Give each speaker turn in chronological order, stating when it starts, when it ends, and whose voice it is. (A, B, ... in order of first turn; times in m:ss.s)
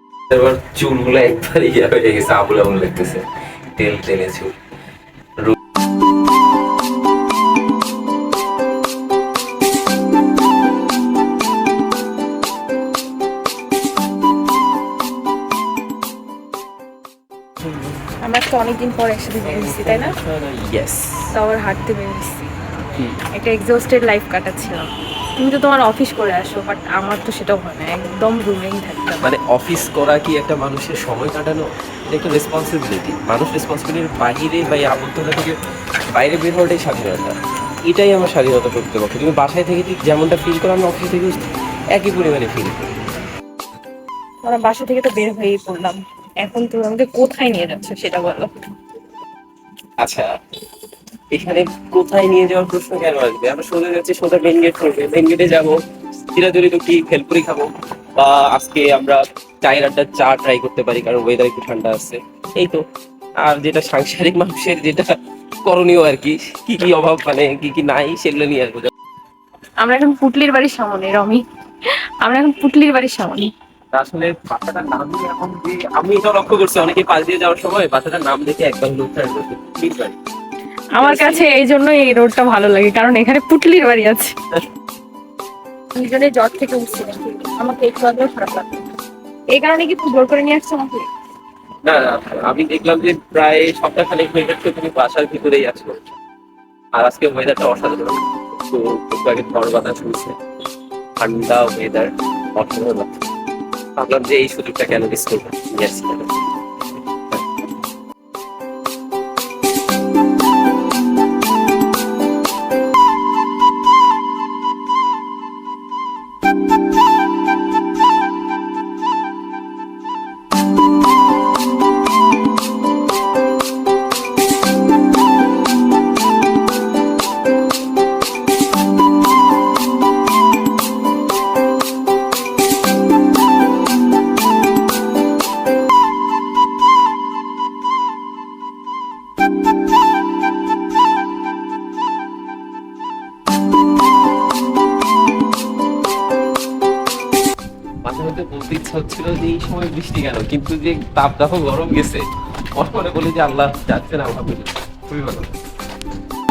0:00.3-0:03.2 A
0:03.8-0:04.5 A
0:18.2-0:20.2 B
0:19.4-0:21.3 A
0:21.3-0:29.3 B
0:29.2-0:35.6 A
0:36.1-0:42.9 A
0:44.4-0:48.5 B
0:50.0-0:50.3 A
0:51.3-1:02.8 A
1:03.4-1:08.9 A
1:09.8-1:11.4 B
1:12.2-1:13.5 B
1:13.9-1:20.2 A
1:21.0-1:24.4 B
1:21.0-1:21.4 A
1:26.0-1:28.9 B
1:29.5-1:31.1 B
1:31.8-1:36.0 A
1:37.0-1:40.4 A
1:41.2-1:43.2 A
1:44.0-1:46.5 A
2:28.0-2:35.5 A